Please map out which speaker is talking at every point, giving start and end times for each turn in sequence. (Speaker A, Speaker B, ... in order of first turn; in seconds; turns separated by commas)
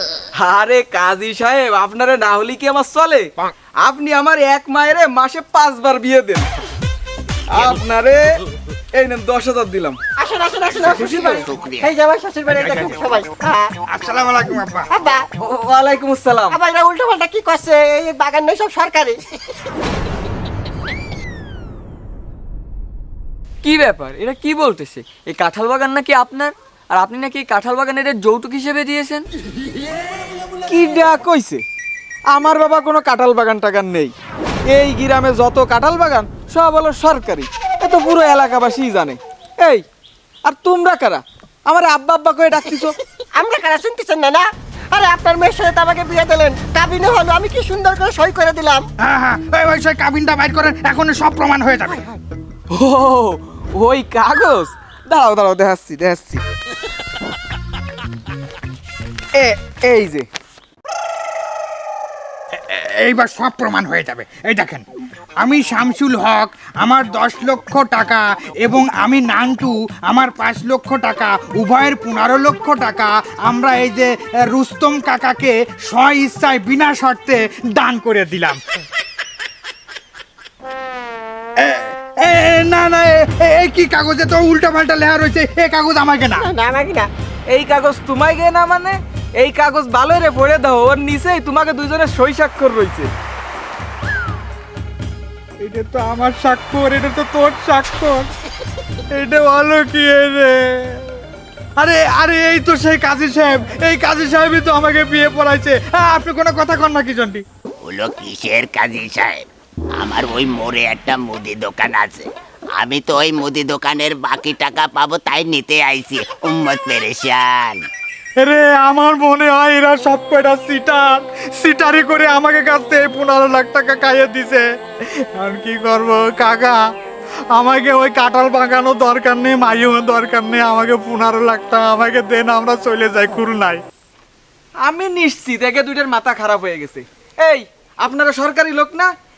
Speaker A: 0.4-3.3, Speaker A: 3.8-6.5, Speaker A: 7.5-8.4, Speaker A: 9.0-10.0, Speaker B: 10.2-13.7, Speaker A: 10.9-11.4, Speaker C: 10.9-11.9, Speaker D: 12.5-13.0, Speaker D: 13.9-14.9, Speaker B: 14.9-15.3, Speaker A: 15.4-16.6, Speaker B: 16.5-19.2, Speaker E: 23.6-29.2, Speaker A: 30.7-31.6, Speaker A: 32.3-34.1, Speaker A: 34.7-39.8, Speaker A: 40.5-43.0, Speaker B: 43.4-48.9, Speaker D: 49.0-52.0, Speaker B: 51.9-52.2, Speaker A: 52.7-56.4, Speaker A: 59.4-60.3, Speaker D: 62.5-64.9, Speaker D: 65.4-78.6, Speaker D: 81.6-86.4, Speaker B: 86.3-87.1, Speaker A: 87.5-93.1, Speaker D: 95.6-98.3, Speaker D: 99.2-101.2, Speaker D: 101.8-107.5, Speaker C: 107.8-109.5, Speaker C: 110.0-117.9, Speaker D: 118.4-124.7, Speaker D: 125.3-126.8, Speaker D: 127.5-133.8, Speaker A: 134.8-139.1